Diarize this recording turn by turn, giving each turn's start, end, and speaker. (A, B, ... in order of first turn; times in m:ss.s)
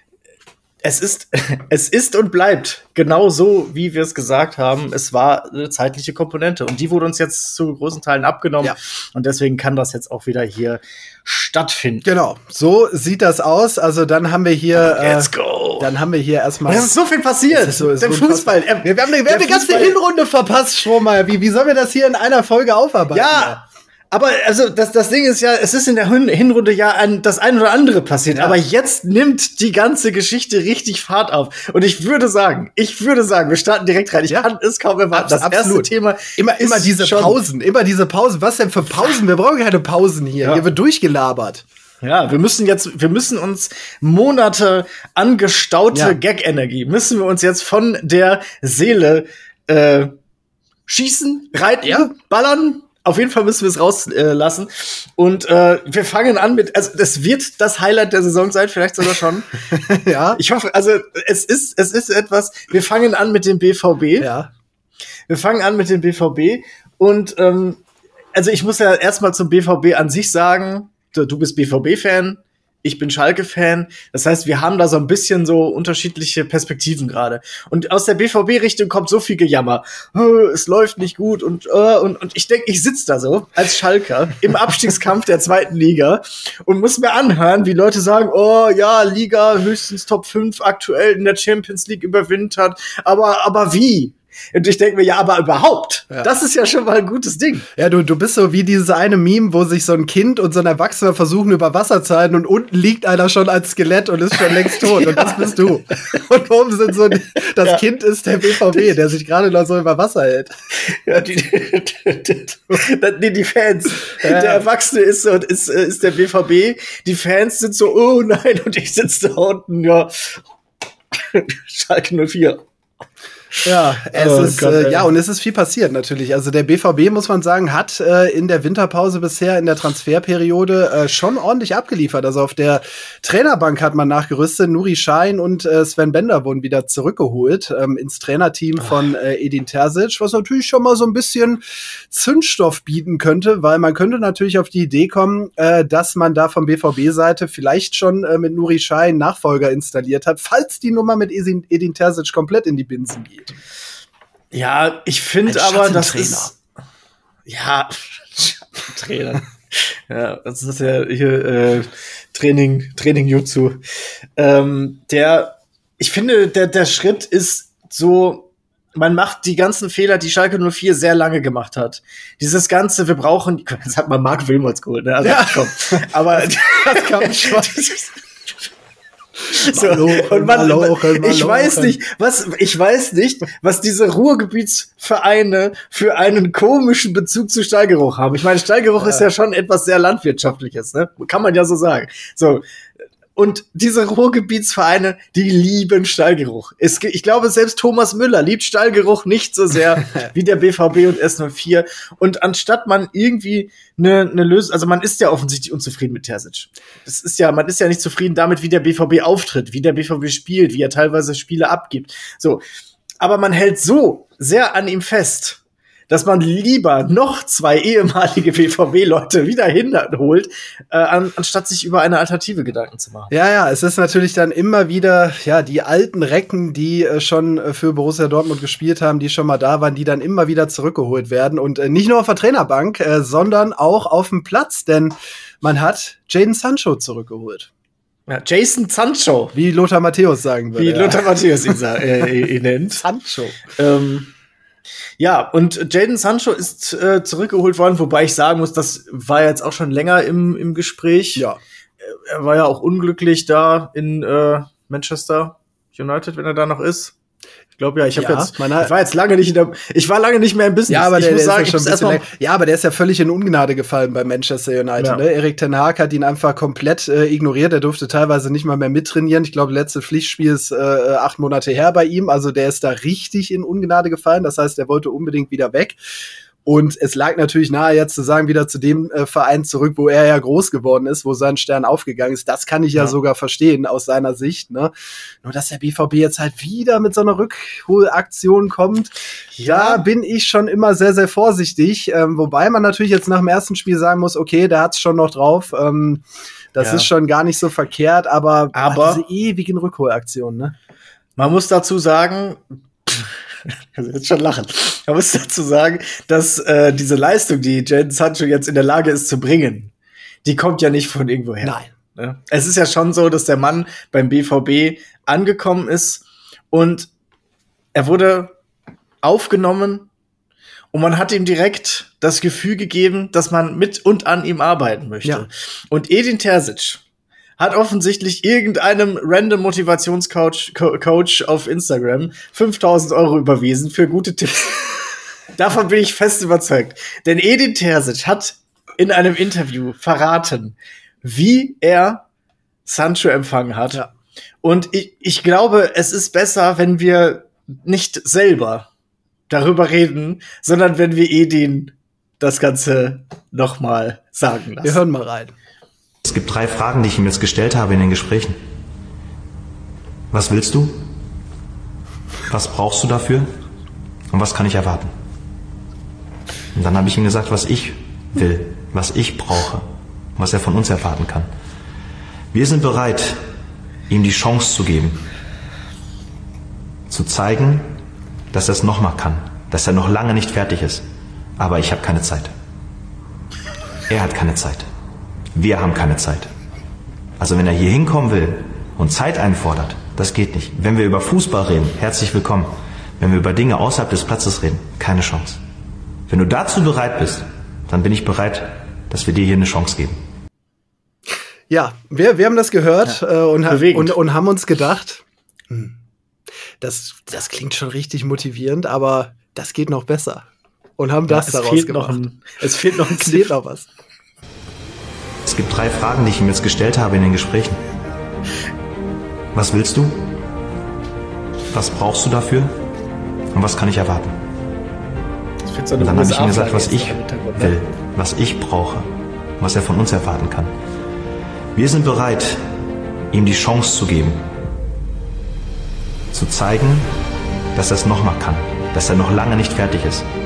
0:00.8-0:12.1 A
0:12.0-0:16.9 B
0:14.8-0:15.9 A
0:16.7-0:20.0 A
0:17.5-0:23.6 B
0:23.1-0:37.4 A
0:28.3-0:28.6 B
0:35.1-0:41.6 B
0:42.0-0:50.1 A
0:45.9-0:46.2 B
0:50.9-0:59.6 A
0:51.8-0:52.1 B
0:59.7-1:00.4 B
1:00.4-1:04.3 A
1:04.2-1:04.5 B
1:05.3-1:07.8 A
1:08.3-1:37.7 A
1:37.8-1:50.5 B
1:44.6-1:45.8 A
1:50.9-2:00.4 A
1:54.2-1:54.6 B
2:01.1-2:02.6 A
2:03.6-2:05.1 A
2:03.6-2:33.5 B
2:34.5-2:36.6 A
2:35.5-2:36.5 B
2:37.5-2:43.8 A
2:44.4-2:58.2 A
2:55.2-2:57.8 B
2:59.5-3:12.6 A
2:59.7-3:02.0 B
3:09.0-3:09.2 B
3:13.4-3:32.6 A
3:33.2-3:35.6 A
3:36.1-3:43.3 A
3:43.3-3:57.7 B
3:58.3-3:59.5 A
3:59.5-4:01.3 B
4:00.8-4:03.0 A
4:03.0-4:03.6 B
4:03.8-4:04.3 A
4:05.2-4:11.4 A
4:12.0-4:17.1 A
4:17.8-4:22.2 A
4:18.2-4:18.9 B
4:20.9-4:36.0 B
4:36.6-4:44.9 B
4:45.4-4:49.1 B
4:49.6-4:50.0 A
4:49.6-4:56.2 B
4:56.8-5:00.7 B
4:56.8-4:57.1 A
4:58.7-4:59.2 A
5:01.4-5:09.9 A
5:10.4-5:17.1 A
5:11.6-5:11.9 B
5:18.0-5:18.5 A
5:19.2-5:20.1 A
5:20.9-5:27.0 A
5:27.6-5:42.2 A
5:42.9-5:44.0 A
5:44.6-5:48.9 A
5:49.5-5:55.0 A
5:54.8-5:55.5 B
5:56.2-5:58.6 C
6:00.3-6:01.0 C
6:02.5-6:03.5 C
6:04.3-6:05.1 C
6:06.8-6:11.5 C
6:12.5-6:13.4 C
6:14.1-6:15.2 C
6:17.1-6:17.9 C
6:18.5-6:21.0 C
6:21.6-6:22.5 C
6:24.1-6:24.9 C
6:25.6-6:26.5 C
6:27.4-6:35.6 C
6:36.3-6:40.2 C
6:41.7-6:46.0 B
6:43.7-6:44.2 A
6:46.8-6:50.5 B
6:51.0-6:52.2 B
6:51.3-6:53.5 A
6:53.1-6:53.9 B
6:55.4-6:57.8 C
6:59.5-7:00.2 C
7:01.7-7:02.7 C
7:03.5-7:04.4 C
7:05.6-7:07.8 A
7:06.0-7:10.7 C
7:11.8-7:12.6 C
7:13.3-7:14.4 C
7:16.3-7:17.1 C
7:17.8-7:20.2 C